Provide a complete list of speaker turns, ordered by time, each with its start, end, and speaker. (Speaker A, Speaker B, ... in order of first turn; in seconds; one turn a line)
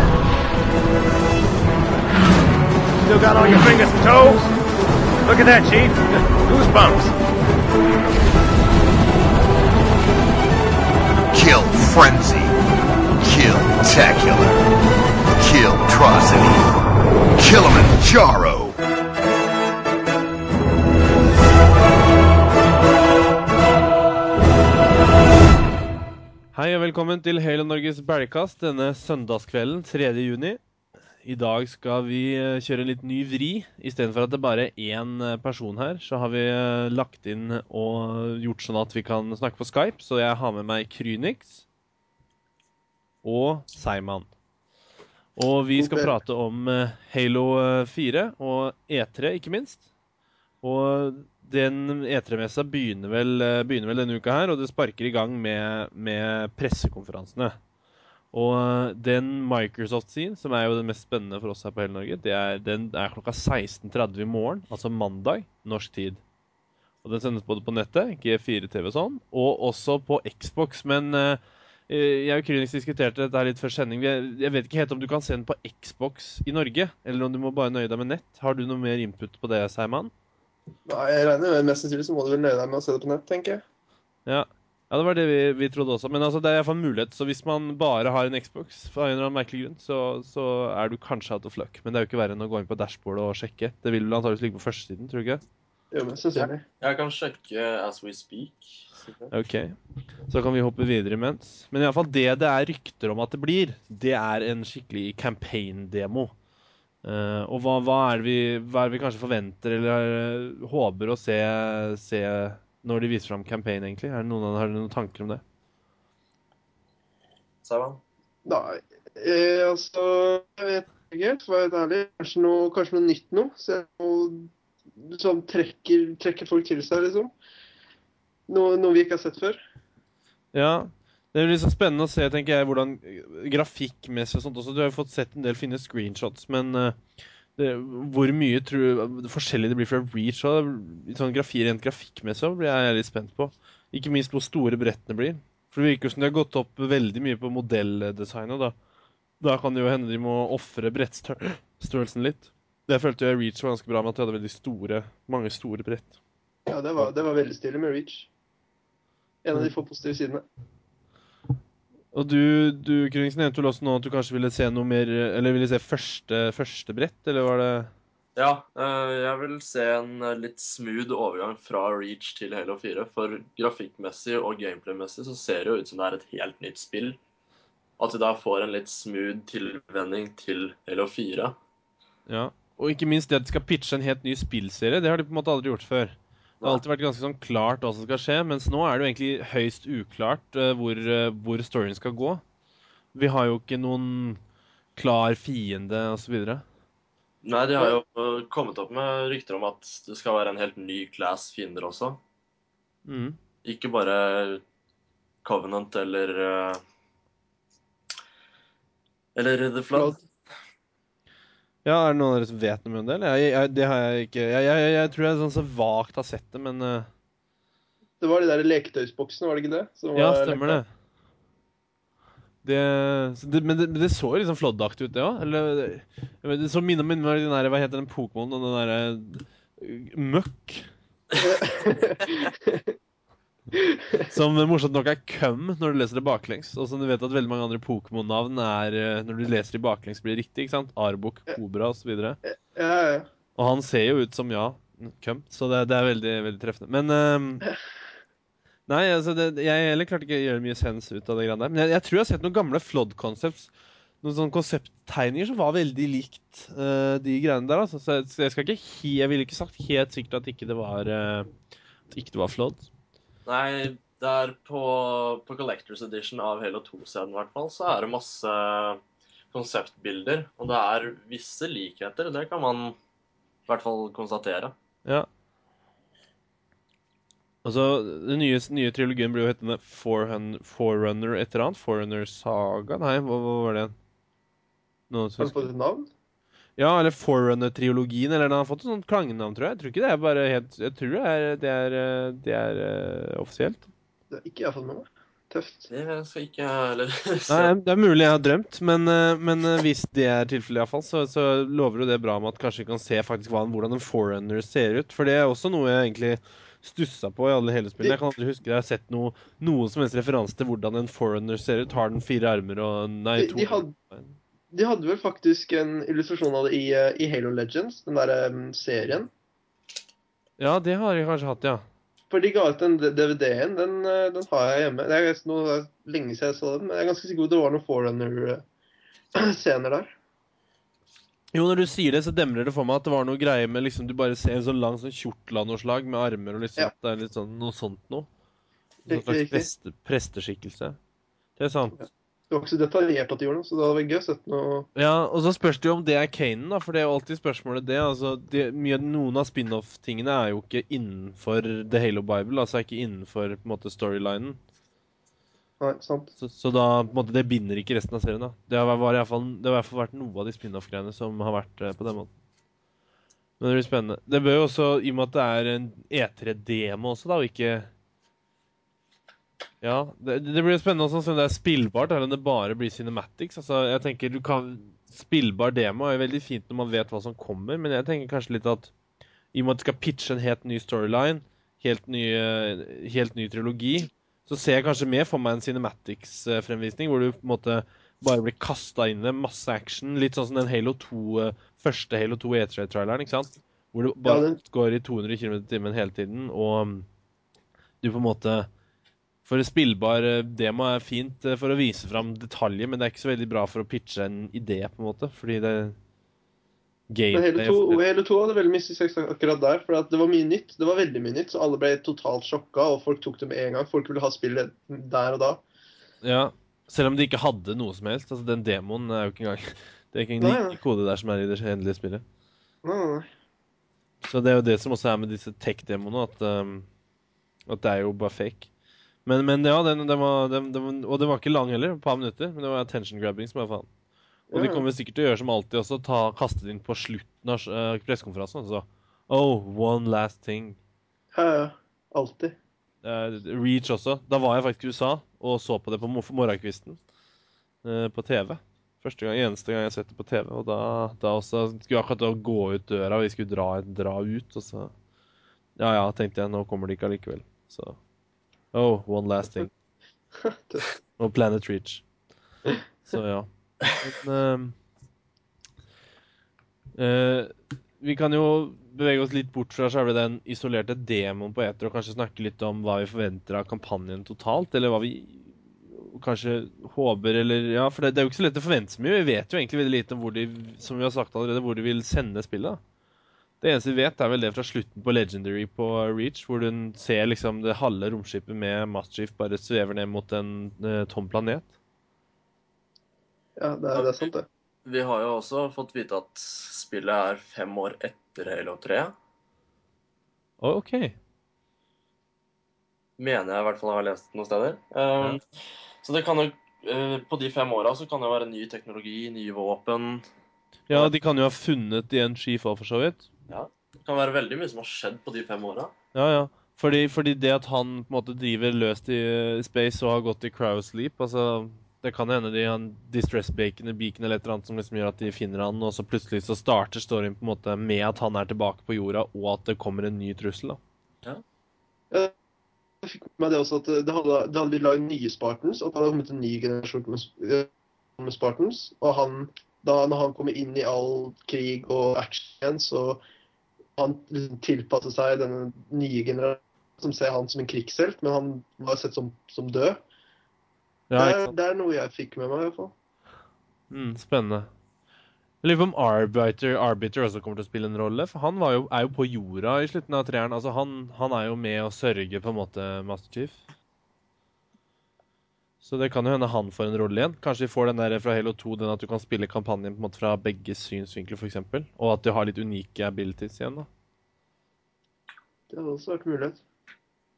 Speaker A: 3.0-4.5
Speaker A: 5.2-7.1
Speaker B: 11.3-12.6
Speaker B: 13.2-14.7
Speaker B: 15.4-16.7
Speaker B: 17.4-18.8
Speaker C: 26.5-30.6
Speaker C: 31.2-41.6
Speaker C: 43.2-44.3
Speaker C: 45.4-49.8
Speaker D: 45.8-46.2
Speaker C: 50.6-57.6
Speaker C: 58.3-66.2
Speaker C: 67.0-80.1
Speaker D: 80.8-83.6
Speaker C: 84.2-95.4
Speaker D: 95.9-96.6
Speaker E: 96.3-99.3
Speaker C: 99.3-99.8
Speaker C: 100.3-106.3
Speaker C: 107.0-115.4
Speaker E: 117.6-118.0
Speaker D: 118.4-127.3
Speaker D: 128.5-129.6
Speaker C: 130.5-137.0
Speaker C: 137.6-148.7
Speaker C: 149.4-156.1
Speaker D: 156.7-158.3
Speaker D: 159.4-160.4
Speaker C: 162.1-167.9
Speaker E: 168.3-177.2
Speaker E: 178.0-181.6
Speaker C: 182.3-192.4
Speaker C: 193.1-194.4
Speaker C: 194.9-196.6
Speaker E: 197.4-202.2
Speaker C: 203.1-203.4
Speaker E: 203.6-204.6
Speaker E: 205.4-206.8
Speaker E: 209.3-210.2
Speaker C: 211.8-217.1
Speaker D: 218.2-220.8
Speaker C: 220.1-220.9
Speaker C: 222.6-230.9
Speaker D: 231.4-232.9
Speaker D: 233.7-234.3
Speaker C: 234.2-242.4
Speaker D: 242.4-243.3
Speaker C: 243.6-247.6
Speaker C: 248.9-253.7
Speaker C: 254.2-261.5
Speaker C: 262.1-262.9
Speaker E: 263.4-269.0
Speaker E: 269.5-273.0
Speaker E: 273.7-274.7
Speaker C: 277.6-283.9
Speaker C: 285.1-285.7
Speaker D: 285.4-286.1
Speaker C: 286.8-293.9
Speaker D: 294.3-295.9
Speaker E: 295.9-297.7
Speaker C: 297.5-314.4
Speaker D: 313.4-313.9
Speaker D: 314.7-319.3
Speaker C: 320.6-321.8
Speaker D: 322.3-328.6
Speaker D: 329.3-330.1
Speaker C: 331.5-338.3
Speaker D: 339.0-339.7
Speaker C: 339.1-341.0
Speaker C: 341.6-342.0
Speaker D: 342.0-344.9
Speaker C: 344.9-354.6
Speaker D: 355.8-356.3
Speaker C: 356.4-362.3
Speaker C: 363.6-367.9
Speaker C: 369.8-378.9
Speaker C: 379.5-397.1
Speaker D: 394.2-394.6
Speaker C: 398.0-398.7
Speaker C: 399.4-405.9
Speaker C: 407.1-408.0
Speaker D: 407.3-415.6
Speaker C: 416.2-422.2
Speaker D: 420.4-420.8
Speaker D: 422.8-423.3
Speaker C: 424.2-426.9
Speaker C: 427.7-428.7
Speaker C: 429.2-433.9
Speaker D: 434.5-434.8
Speaker C: 434.5-440.8
Speaker D: 441.3-442.6
Speaker C: 443.0-447.0
Speaker C: 447.8-454.9
Speaker C: 455.8-458.0
Speaker C: 458.7-459.7
Speaker D: 460.4-460.9
Speaker C: 461.2-462.0
Speaker C: 463.1-464.8
Speaker C: 467.0-482.8
Speaker C: 483.6-491.7
Speaker D: 493.6-494.4
Speaker E: 493.9-494.3
Speaker E: 494.8-499.1
Speaker C: 500.6-501.1
Speaker E: 503.2-505.4
Speaker E: 506.0-510.3
Speaker C: 510.9-513.3
Speaker E: 513.5-515.9
Speaker C: 516.1-530.8
Speaker D: 533.0-543.2
Speaker D: 544.0-550.0
Speaker C: 551.1-551.5
Speaker D: 551.2-552.9
Speaker C: 553.9-554.7
Speaker C: 555.6-563.6
Speaker C: 565.8-573.9
Speaker D: 575.7-576.6